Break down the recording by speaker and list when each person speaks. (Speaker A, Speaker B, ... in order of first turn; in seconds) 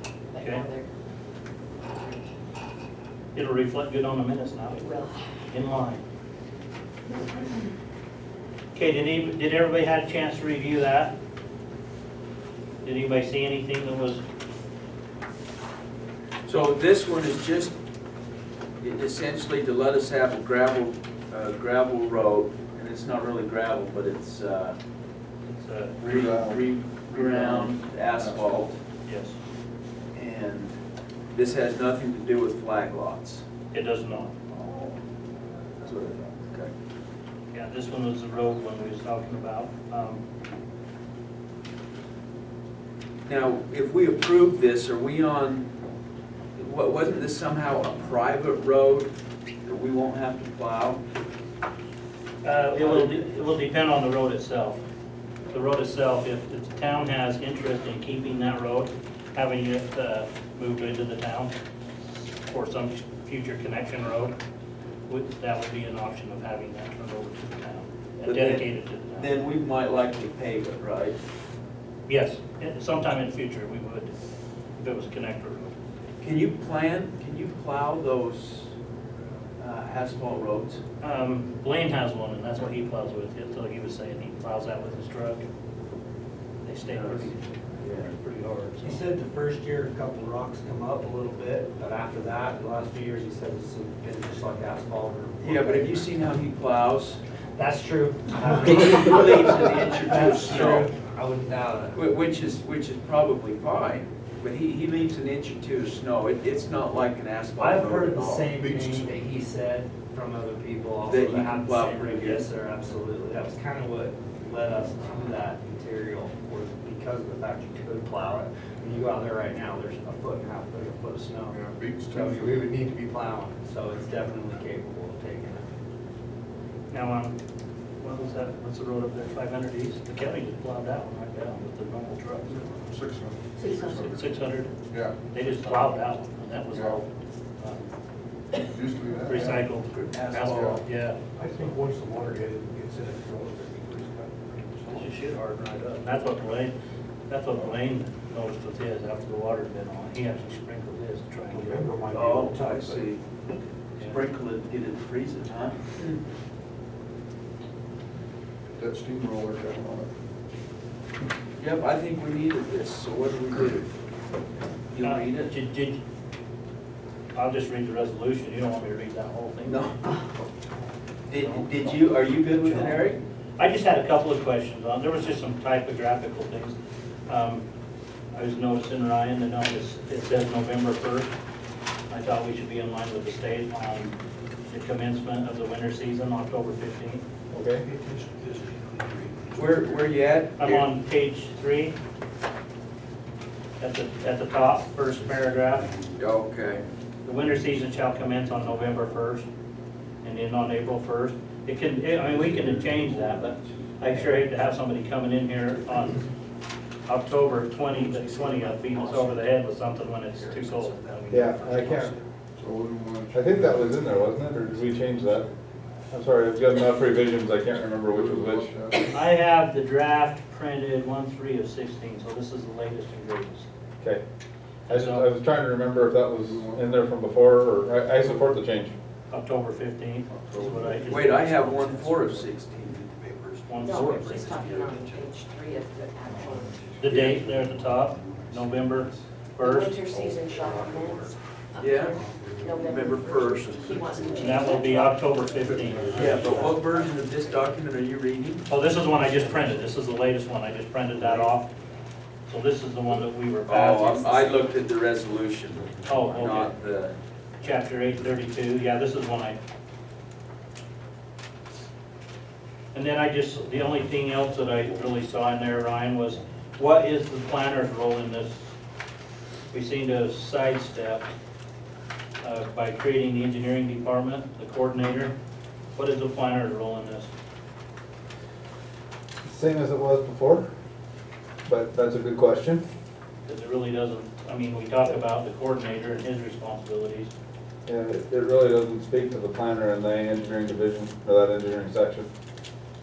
Speaker A: 0.3-0.9, 1.8-2.3, 4.7-5.3, 133.6-134.0, 233.8-237.2, 239.6-247.7
Speaker B: 0.4-0.7, 3.3-4.9, 5.5-6.0, 8.7-11.1, 12.8-14.2, 25.5-26.0, 29.0-29.4, 33.7-34.3, 37.5-40.2, 52.4-54.8, 55.5-61.5, 62.5-64.3, 65.1-69.3, 72.1-74.1, 74.8-75.7, 81.0-85.4, 86.6-87.4, 88.1-89.0, 126.9-127.3, 128.0-132.6, 133.8-134.7, 135.3-137.8, 139.3-141.7, 144.8-146.7, 147.3-151.9, 165.0-166.0, 167.3-169.8, 173.6-176.8, 177.3-177.6, 178.3-181.3, 182.1-184.1, 184.7-187.2, 190.6-191.9, 193.8-195.9, 197.2-199.4, 200.2-206.2, 207.1-211.7, 219.1-223.7, 224.9-225.3, 229.3-232.2, 233.7-234.8, 237.0-239.9, 244.4-246.3, 248.7-251.7, 252.5-254.6, 256.1-256.7, 257.6-259.6, 262.9-268.7, 269.7-271.2, 272.4-275.3, 275.9-277.3, 283.5-287.3
Speaker C: 16.4-17.7, 18.8-24.8, 26.0-28.8, 30.1-30.7, 31.3-33.4, 34.5-34.9, 35.8-36.7, 43.2-45.7, 46.5-49.1, 49.6-51.0, 68.2-71.2, 76.2-78.7, 79.6-80.8, 86.9-88.1, 95.4-97.2, 98.6-100.9, 101.9-108.5, 111.0-112.5, 139.9-140.8, 152.1-153.2, 154.0-156.2, 161.6-163.9, 164.9-165.5, 169.6-170.1, 171.3-173.2, 189.5-190.8, 196.1-196.8, 231.1-233.1, 241.8-242.2, 242.8-244.2, 246.1-248.7, 253.7-257.1
Speaker D: 26.0-28.6, 187.5-187.8, 211.3-212.1, 213.3-215.5, 216.1-218.7, 224.9-228.9, 279.4-280.6, 281.6-282.8, 287.9-292.3
Speaker E: 88.8-96.1, 97.5-102.0, 107.6-125.7
Speaker F: 108.5-109.1, 121.5-122.7, 132.5-134.3, 134.9-135.1, 136.7-137.0, 138.7-139.7, 140.5-140.8, 158.8-160.1, 202.2-203.6, 212.6-214.8, 218.1-219.2, 226.4-226.9, 228.2-228.4, 230.3-231.2, 245.7-246.2
Speaker G: 141.3-145.4, 151.5-153.1, 187.8-190.0, 195.7-196.1, 207.8-209.5, 210.2-212.2, 232.0-235.2, 236.3-236.7, 237.2-239.0, 240.1-241.2, 242.7-244.7, 245.3-246.8